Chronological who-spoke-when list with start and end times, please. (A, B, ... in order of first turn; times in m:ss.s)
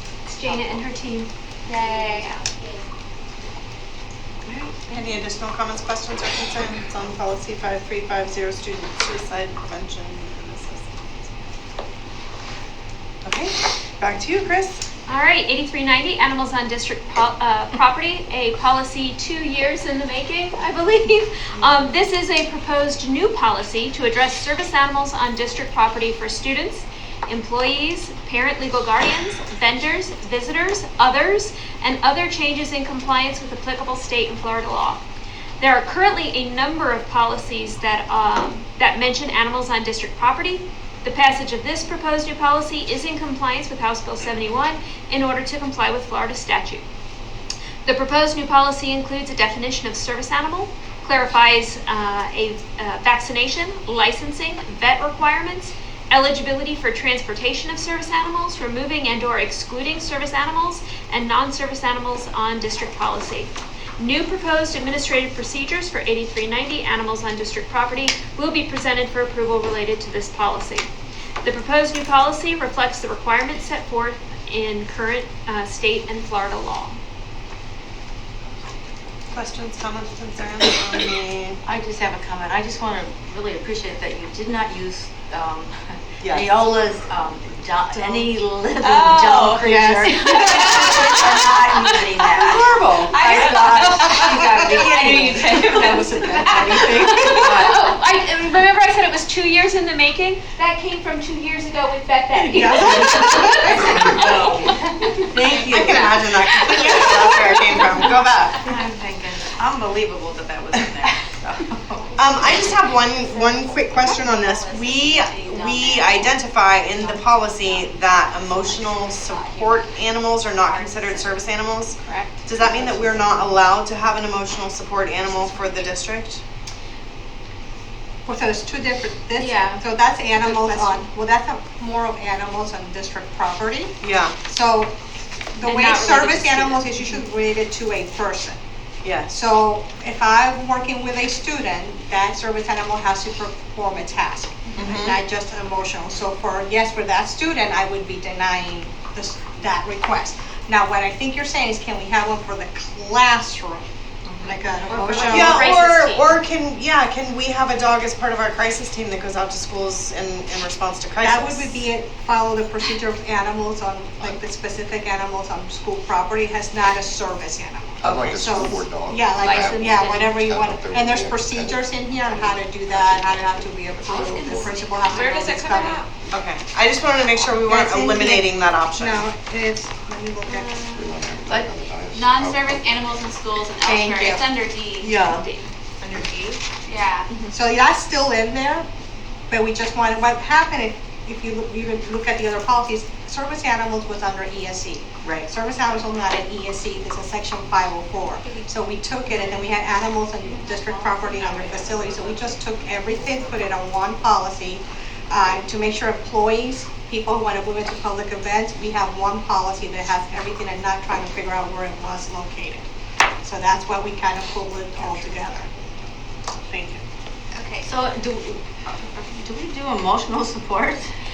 0:00.3-0:01.3 A
0:00.4-0:00.8 B
0:01.6-0:02.8 B
0:02.0-0:02.4 A
0:04.8-0:11.3 C
0:13.2-0:14.8 C
0:15.1-0:35.0 A
0:35.6-0:46.8 A
0:47.8-1:10.9 A
1:11.4-1:17.0 A
1:19.3-1:21.6 C
1:21.6-1:37.9 D
1:26.2-1:26.5 C
1:28.8-1:29.8 B
1:30.2-1:31.1 A
1:30.9-1:31.6 B
1:32.4-1:32.8 C
1:33.0-1:37.1 B
1:33.9-1:34.2 A
1:37.1-1:44.9 A
1:42.5-1:44.0 E
1:44.3-1:44.5 D
1:45.3-1:46.2 D
1:45.4-1:48.6 C
1:46.6-1:48.1 A
1:48.6-1:52.2 D
1:52.2-2:06.4 C
1:52.9-2:01.5 B
2:02.0-2:02.3 A
2:08.2-2:14.9 E
2:09.4-2:09.7 A
2:10.4-2:11.1 A
2:14.0-2:14.3 C
2:15.6-2:18.6 E
2:15.6-2:17.2 A
2:19.0-2:19.4 C
2:19.3-2:35.7 E
2:24.8-2:25.2 C
2:34.8-2:36.4 A
2:35.2-2:41.8 C
2:41.2-2:56.0 E
2:48.0-2:54.7 F
2:49.4-2:50.4 D
2:54.0-2:55.3 D
2:55.1-2:56.0 B
2:56.1-2:56.3 F
2:56.3-2:59.3 C
2:57.6-3:00.9 E
3:00.4-3:01.1 A
3:00.9-3:03.3 F
3:02.1-3:05.2 B
3:03.8-3:04.4 E
3:05.0-3:05.4 D
3:05.3-3:05.7 A
3:06.0-3:07.3 B
3:07.3-3:07.6 A
3:07.5-3:08.9 E
3:09.5-3:32.8 E
3:20.6-3:23.6 B
3:33.4-3:35.7 E
3:36.7-3:37.0 E
3:37.5-3:37.9 B
3:37.8-3:41.1 D